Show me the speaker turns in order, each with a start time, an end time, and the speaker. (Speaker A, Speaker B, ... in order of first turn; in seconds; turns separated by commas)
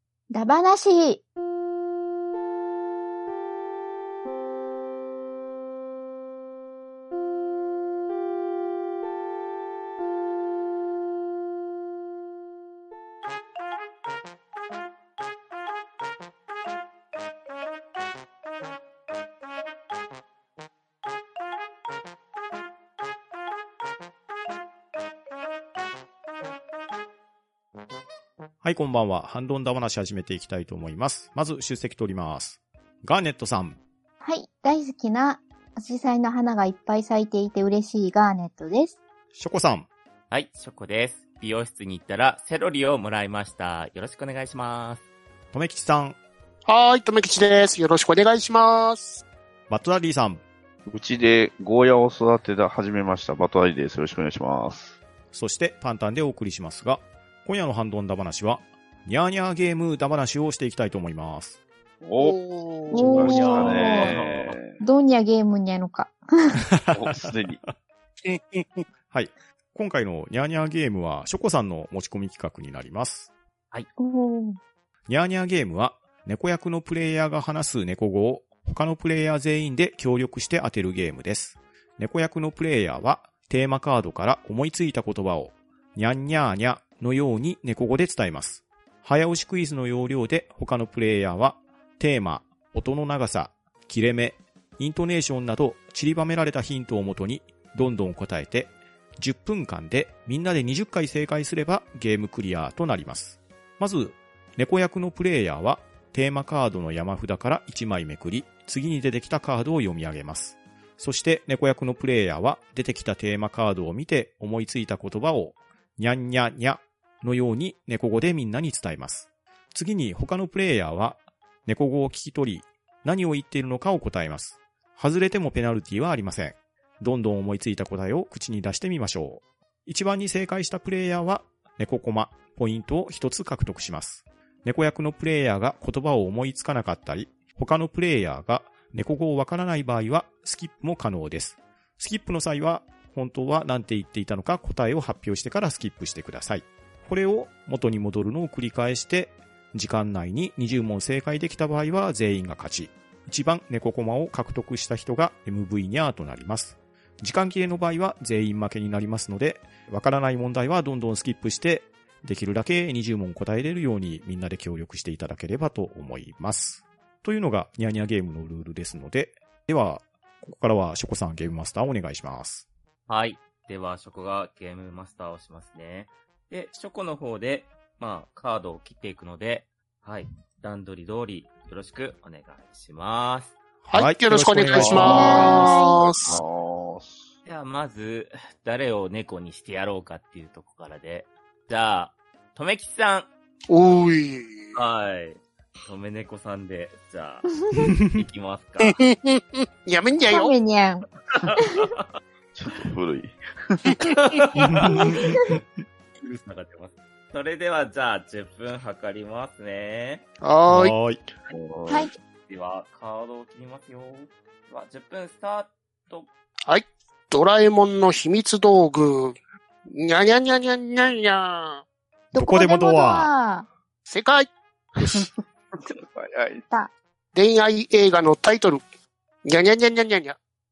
Speaker A: 0.3-1.2, Speaker B: 28.6-33.8, Speaker A: 34.2-39.0, Speaker B: 39.4-39.9, Speaker C: 40.3-45.0, Speaker B: 45.5-46.2, Speaker D: 46.7-49.2, Speaker B: 49.7-50.4, Speaker E: 50.9-55.0, Speaker B: 55.3-61.6, Speaker E: 62.0-62.4, Speaker D: 62.2-63.6, Speaker A: 62.9-64.2, Speaker E: 62.9-64.8, Speaker C: 63.0-64.6, Speaker A: 64.8-66.6, Speaker B: 66.7-67.3, Speaker E: 66.9-67.6, Speaker D: 68.3-68.8, Speaker B: 69.1-73.3, Speaker A: 74.0-74.6, Speaker B: 75.1-172.7, Speaker C: 173.1-183.6, Speaker B: 183.8-185.6, Speaker D: 183.9-186.4, Speaker E: 184.7-185.6, Speaker A: 184.9-186.1, Speaker E: 186.2-187.3, Speaker C: 187.4-193.3, Speaker D: 193.7-194.8, Speaker C: 194.8-199.0, Speaker A: 197.6-197.9, Speaker B: 197.8-198.2, Speaker D: 198.9-200.6, Speaker A: 200.3-201.1, Speaker C: 201.3-202.1, Speaker A: 201.6-201.9, Speaker E: 202.6-204.0, Speaker C: 204.2-205.6, Speaker B: 204.6-205.6, Speaker C: 206.2-210.3, Speaker D: 210.4-210.9, Speaker B: 210.7-211.2, Speaker E: 211.5-212.1, Speaker A: 211.9-212.2, Speaker C: 212.5-216.3, Speaker D: 216.7-219.4, Speaker D: 219.9-221.8, Speaker B: 222.3-223.3, Speaker A: 222.3-223.7, Speaker D: 224.1-224.5, Speaker E: 225.0-225.3, Speaker D: 225.0-225.3, Speaker E: 225.9-226.7, Speaker D: 227.3-228.8, Speaker D: 229.4-230.4